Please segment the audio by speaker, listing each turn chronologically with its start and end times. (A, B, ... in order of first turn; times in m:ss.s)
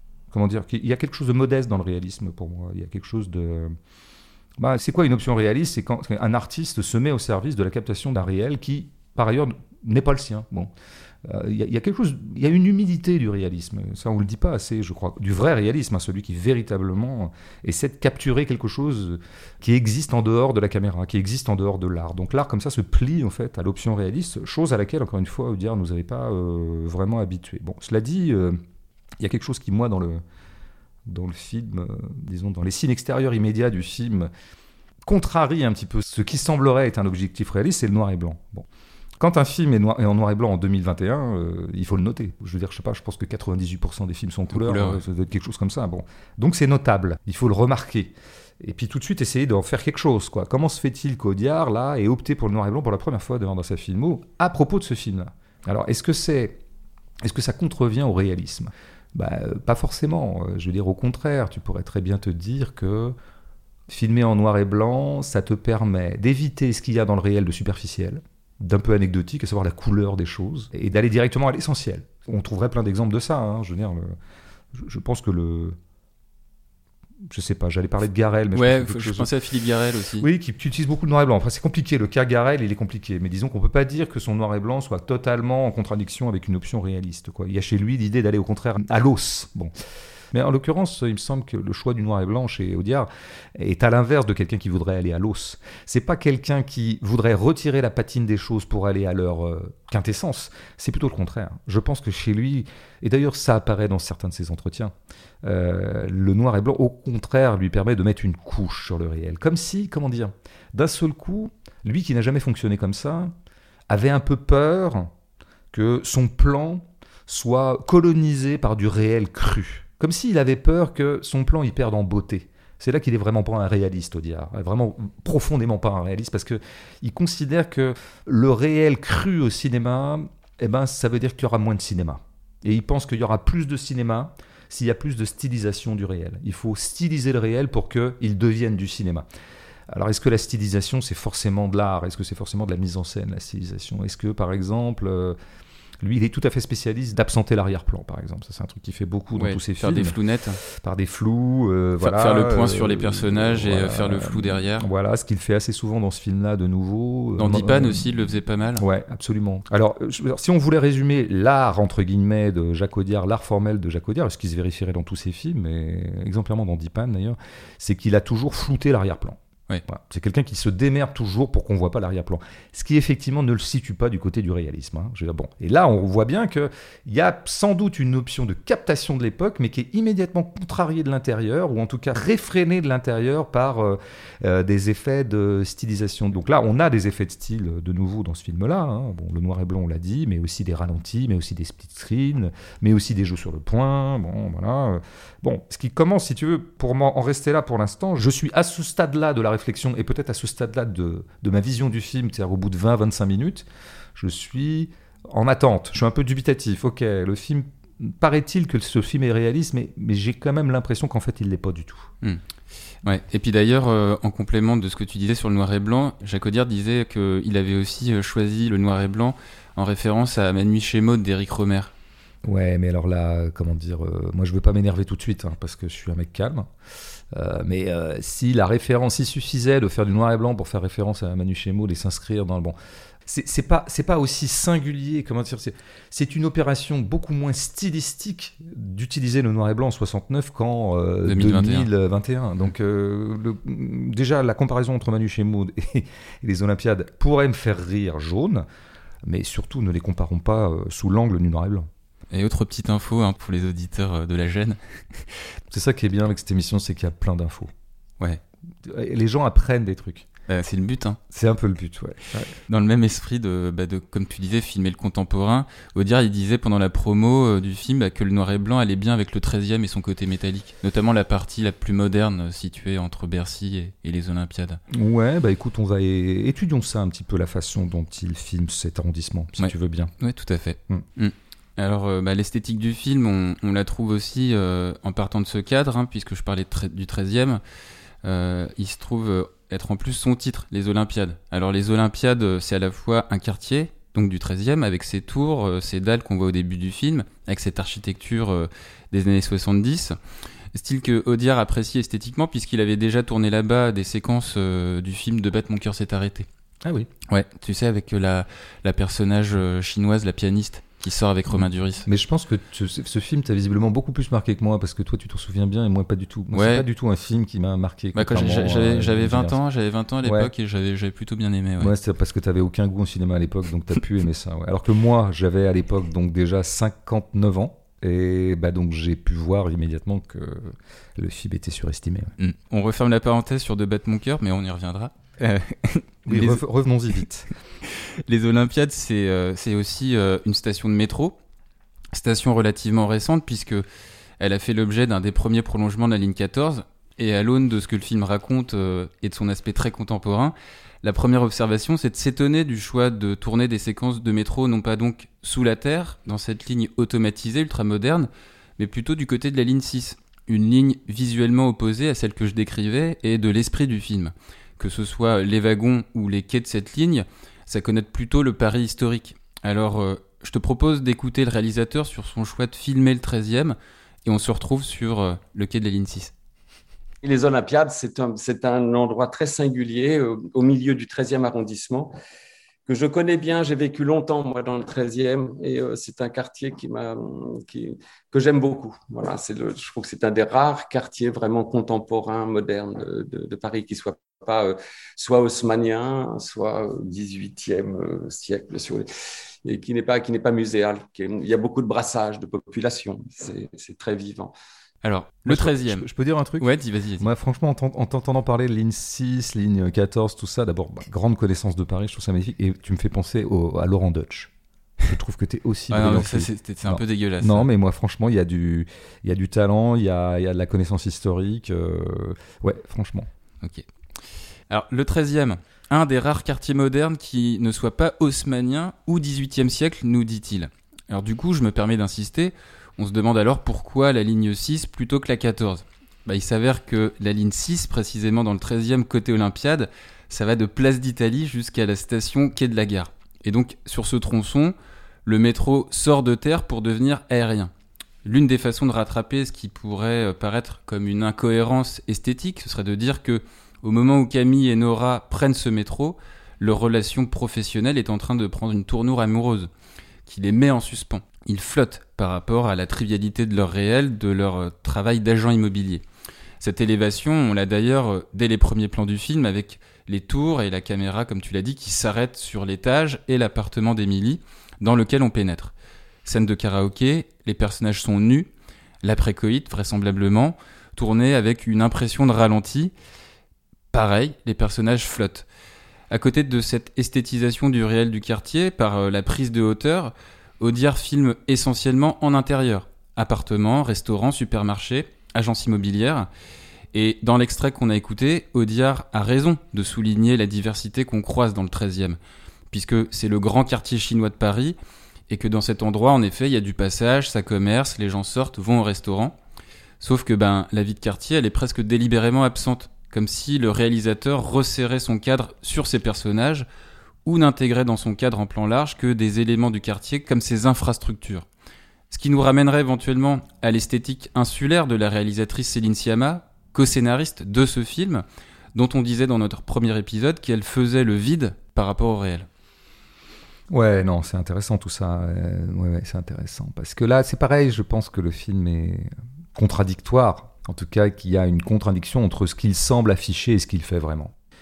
0:00.3-0:03.7 A
0:04.6-0:10.7 A
0:11.2-0:28.6 A
0:29.2-0:30.2 A
0:31.0-0:34.3 A
0:35.0-0:38.7 A
0:39.2-0:56.6 A
0:44.5-0:45.0 B
0:57.2-1:03.1 A
1:03.9-1:14.1 A
1:14.7-1:15.8 A
1:17.3-1:19.3 A
1:18.5-1:20.3 B
1:20.2-1:29.7 A
1:30.3-1:53.3 A
1:53.9-1:55.1 A
1:55.7-2:19.2 A
2:19.9-2:25.4 A
2:26.0-3:32.1 A
2:29.4-2:30.6 B
2:32.0-2:34.9 B
2:37.4-2:38.8 B
3:33.0-3:41.9 B
3:42.4-3:46.7 A
3:47.3-3:52.7 A
3:53.2-4:08.6 A
4:01.2-4:01.9 B
4:09.2-4:11.9 A
4:12.3-4:15.2 B
4:15.7-4:17.7 A
4:18.8-4:20.3 A
4:20.5-4:21.2 B
4:21.3-4:22.5 A
4:22.7-4:34.8 B
4:34.9-4:40.1 A
4:39.6-4:47.6 B
4:48.2-5:00.2 B
5:00.7-5:06.5 B
5:06.8-5:07.1 A
5:07.3-5:12.1 B
5:12.0-5:19.6 A
5:16.5-5:16.8 B
5:18.1-5:21.9 B
5:20.2-5:20.5 A
5:21.8-5:32.3 A
5:32.4-5:36.6 B
5:36.2-5:37.5 A
5:38.0-5:41.4 B
5:42.1-5:43.8 B
5:44.4-6:16.3 B
6:17.2-6:22.1 C
6:22.9-6:39.1 C
6:39.6-6:44.5 C
6:45.0-6:46.1 B
6:45.4-6:54.5 A
6:46.6-6:47.2 B
6:55.1-7:03.3 A
6:55.9-6:57.7 B
7:04.7-7:24.7 B
7:25.2-7:27.7 B
7:28.2-7:39.7 B
7:40.2-7:46.0 B
7:46.6-7:55.7 B
7:56.2-7:58.5 B
7:59.0-8:02.9 B
8:03.9-8:05.5 B
8:06.1-8:16.3 B
8:16.9-8:22.2 B
8:22.7-8:24.8 B
8:25.3-8:29.3 B
8:30.0-8:36.7 B
8:37.2-8:41.4 B
8:42.1-8:52.5 B
8:53.7-9:04.3 A